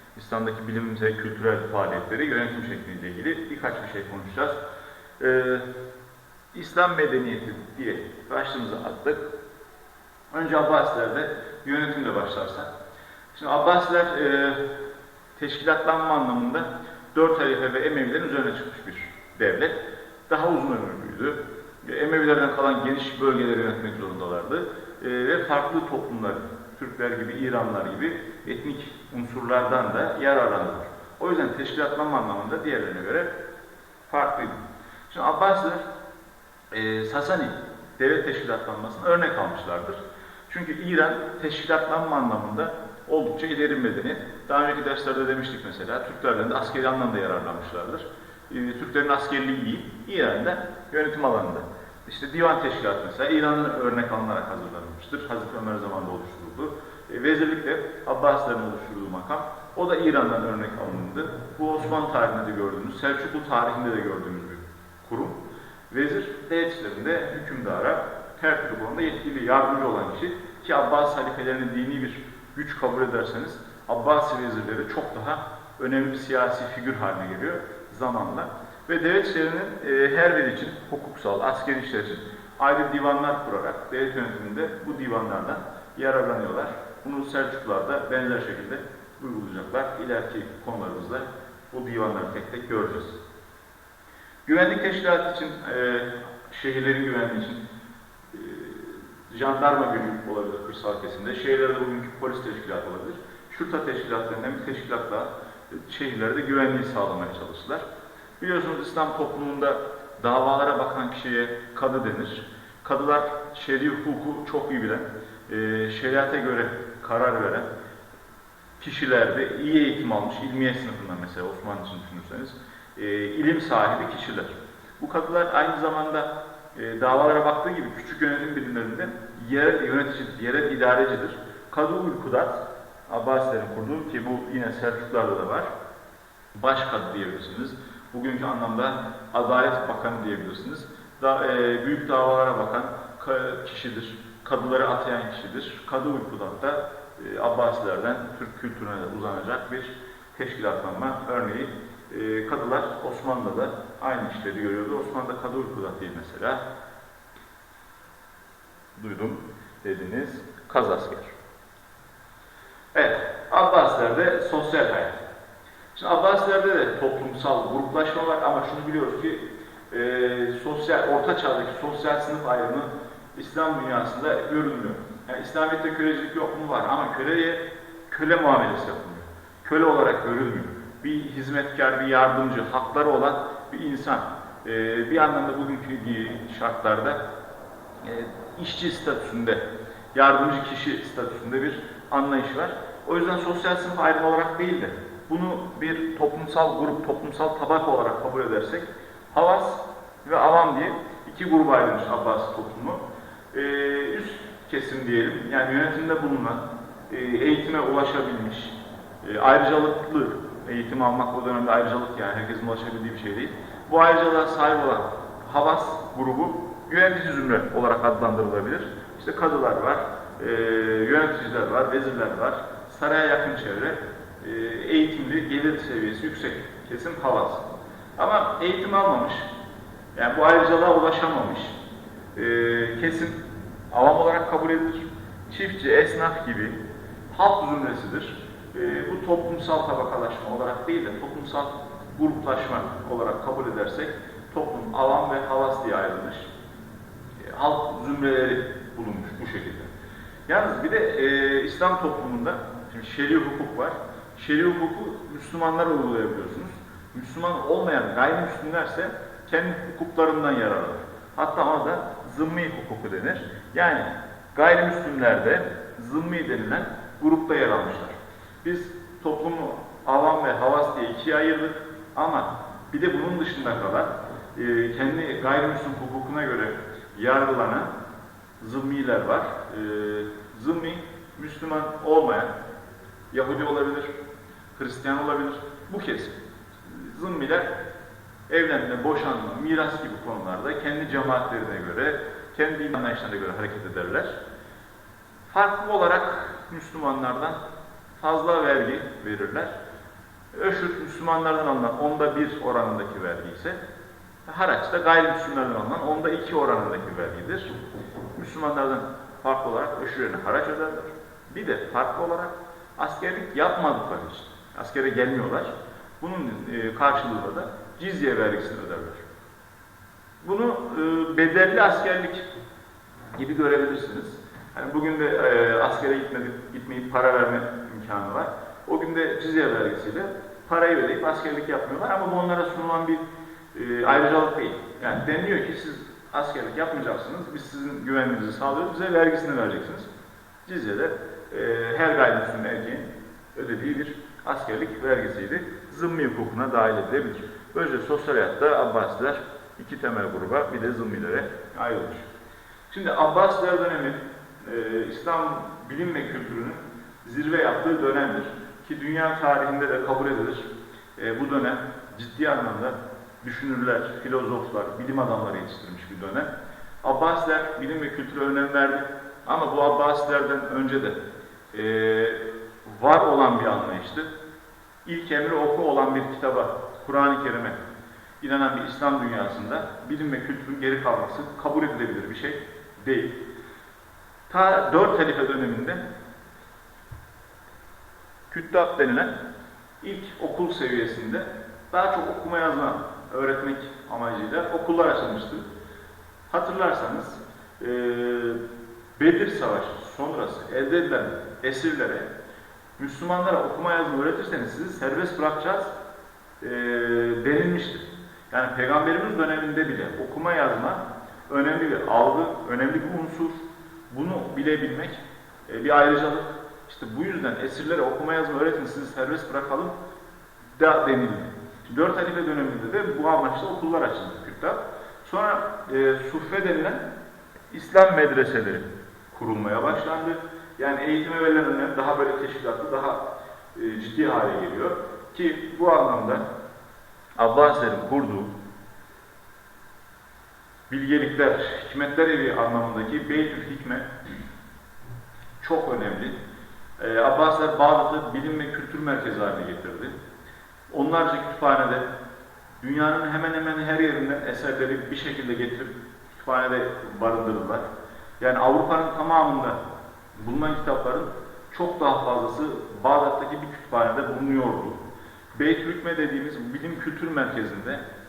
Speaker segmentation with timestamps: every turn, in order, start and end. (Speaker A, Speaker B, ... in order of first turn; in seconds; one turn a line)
Speaker A: 0.1-4.6
Speaker A: 5.2-5.7
Speaker A: 6.5-9.3
Speaker A: 10.3-12.7
Speaker A: 13.3-14.6
Speaker A: 15.4-33.3
Speaker A: 34.1-35.9
Speaker A: 36.7-93.2
Speaker A: 94.5-97.6
Speaker A: 98.3-107.8
Speaker A: 108.4-117.7
Speaker A: 118.8-135.7
Speaker A: 136.5-156.6
Speaker A: 158.9-161.3
Speaker A: 162.9-165.2
Speaker A: 165.9-187.2
Speaker A: 188.0-189.6
Speaker A: 190.1-203.0
Speaker A: 203.5-227.7
Speaker A: 228.2-229.5
Speaker A: 230.2-231.8
Speaker A: 232.3-233.4
Speaker A: 233.9-236.8
Speaker A: 237.3-246.5
Speaker A: 247.4-249.9
Speaker A: 250.5-277.9
Speaker A: 278.6-282.5
Speaker A: 283.3-284.1
Speaker A: 284.8-286.3
Speaker A: 286.9-287.7
Speaker A: 288.5-294.4
Speaker A: 295.5-297.6
Speaker A: 298.2-299.7
Speaker A: 300.5-303.8
Speaker A: 304.5-307.8
Speaker A: 308.4-319.2
Speaker A: 320.4-322.5
Speaker A: 323.3-340.1
Speaker A: 340.6-352.3
Speaker A: 352.9-366.5
Speaker A: 367.0-371.2
Speaker A: 371.7-374.3
Speaker A: 375.1-377.8
Speaker A: 378.4-383.4
Speaker A: 384.5-386.0
Speaker A: 388.5-389.3
Speaker A: 390.0-395.6
Speaker A: 396.5-398.6
Speaker A: 399.2-402.3
Speaker A: 403.0-405.9
Speaker A: 406.6-419.9
Speaker A: 420.8-427.1
Speaker A: 427.7-436.4
Speaker A: 437.4-438.5
Speaker A: 440.9-444.1
Speaker A: 445.6-446.4
Speaker A: 447.0-450.1
Speaker A: 450.9-452.1
Speaker A: 452.8-457.9
Speaker A: 458.4-459.8
Speaker A: 460.4-465.0
Speaker A: 465.6-468.0